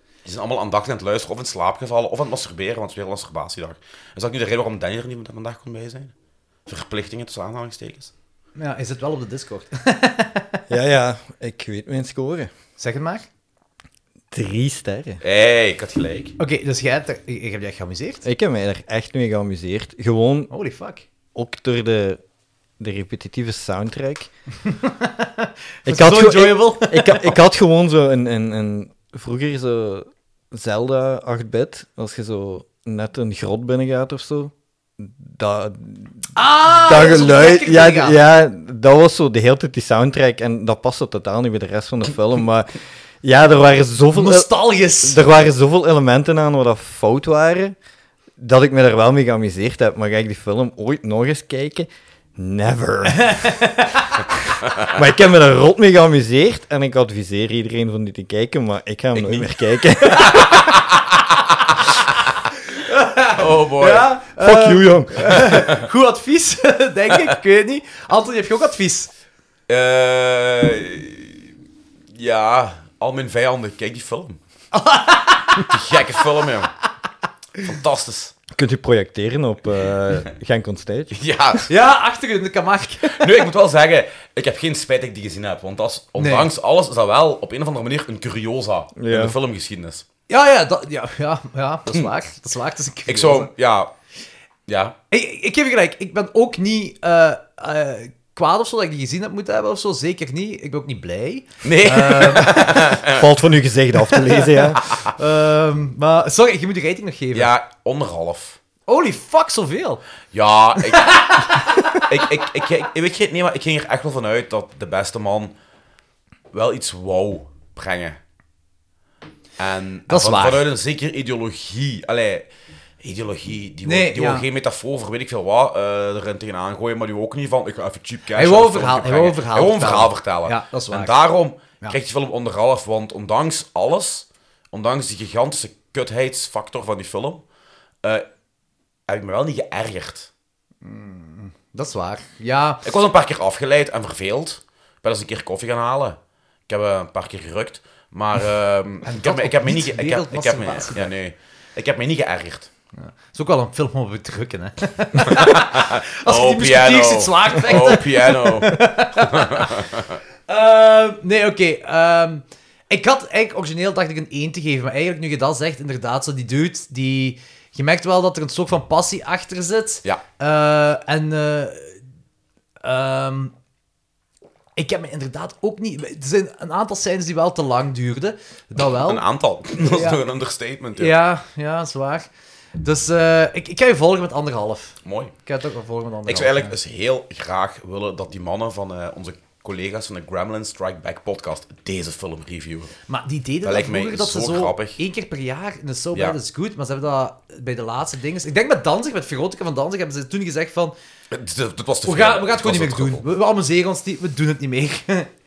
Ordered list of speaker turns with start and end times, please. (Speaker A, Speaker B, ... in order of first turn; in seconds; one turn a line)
Speaker A: 0.2-6.1
Speaker A: 6.7-8.1
Speaker B: 8.6-10.6
Speaker C: 10.7-12.5
Speaker B: 12.8-13.3
Speaker C: 14.3-15.2
Speaker A: 15.2-16.4
Speaker B: 16.4-18.2
Speaker C: 18.2-20.5
Speaker B: 20.5-21.1
Speaker C: 21.4-22.2
Speaker C: 22.8-24.3
Speaker B: 24.7-27.4
Speaker C: 25.9-44.5
Speaker B: 36.4-38.2
Speaker B: 44.1-45.2
Speaker C: 45.0-47.8
Speaker C: 48.4-53.6
Speaker B: 53.1-54.1
Speaker C: 54.3-60.7
Speaker A: 59.1-59.5
Speaker B: 60.1-60.5
Speaker A: 60.3-61.3
Speaker B: 62.7-69.1
Speaker A: 63.4-64.1
Speaker C: 64.4-65.6
Speaker A: 65.4-65.8
Speaker A: 69.7-71.4
Speaker A: 72.2-74.4
Speaker B: 74.7-76.0
Speaker A: 75.6-76.7
Speaker A: 77.6-78.4
Speaker C: 78.5-81.2
Speaker A: 81.1-81.7
Speaker B: 81.7-83.5
Speaker A: 83.1-90.0
Speaker B: 86.2-86.5
Speaker C: 89.0-89.4
Speaker B: 90.3-93.5
Speaker A: 93.1-93.9
Speaker A: 94.7-95.0
Speaker B: 95.1-102.9
Speaker A: 101.6-103.3
Speaker C: 103.1-104.8
Speaker A: 104.8-105.1
Speaker B: 105.1-107.5
Speaker A: 107.3-108.6
Speaker B: 108.9-110.0
Speaker A: 110.3-115.5
Speaker B: 110.9-112.1
Speaker A: 116.5-118.2
Speaker A: 119.6-122.5
Speaker B: 120.1-120.7
Speaker A: 123.0-137.4
Speaker B: 123.8-124.5
Speaker B: 128.4-131.2
Speaker A: 139.1-140.3
Speaker B: 140.8-142.8
Speaker A: 142.8-152.7
Speaker B: 149.1-151.1
Speaker B: 153.0-159.7
Speaker A: 155.2-160.2
Speaker B: 160.5-172.0
Speaker B: 172.8-173.5
Speaker B: 174.8-179.2
Speaker A: 179.0-181.2
Speaker B: 179.8-180.2
Speaker B: 181.0-186.8
Speaker A: 185.1-185.3
Speaker A: 186.3-192.9
Speaker B: 193.1-200.9
Speaker A: 193.6-195.0
Speaker A: 201.3-203.2
Speaker B: 202.1-205.3